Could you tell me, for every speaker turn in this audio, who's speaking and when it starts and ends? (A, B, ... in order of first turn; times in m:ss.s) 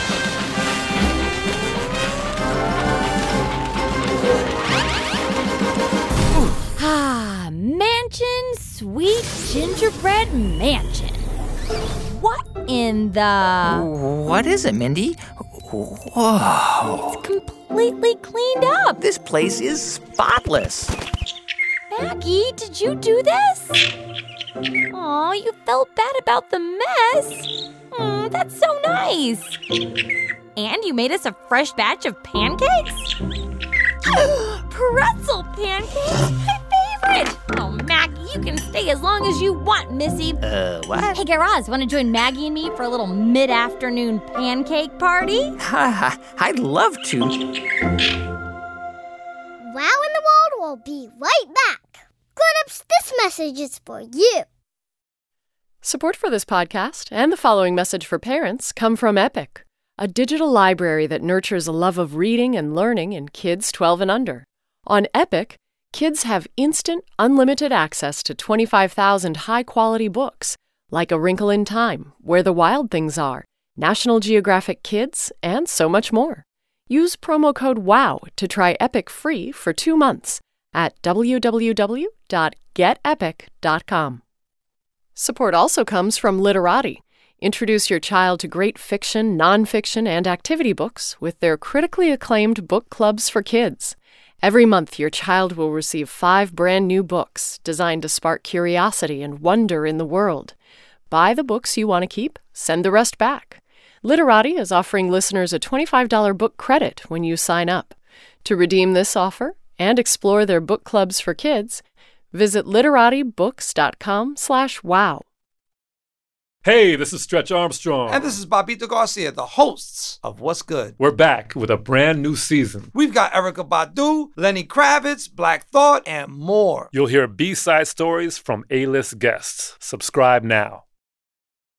0:06.7-0:11.2 A
0:12.0-0:13.9 A
0:13.7-0:17.2 B
0:17.2-0:19.0 A
0:19.0-0:21.0 B
0:21.9-0:23.9 A
0:24.9-0:29.6 A
0:30.6-0:33.2 A
0:34.1-0:40.4 A
0:40.4-0:41.2 B
0:41.1-0:45.6 A
0:45.6-0:47.4 B
0:49.6-0:54.5 C
0:55.8-1:24.2 D
1:25.2-1:40.5 D
1:41.1-1:55.2 D
1:56.6-1:58.4 E
1:58.1-2:01.0 F
2:01.0-2:02.9 E
2:03.0-2:06.9 F
2:06.9-2:10.8 E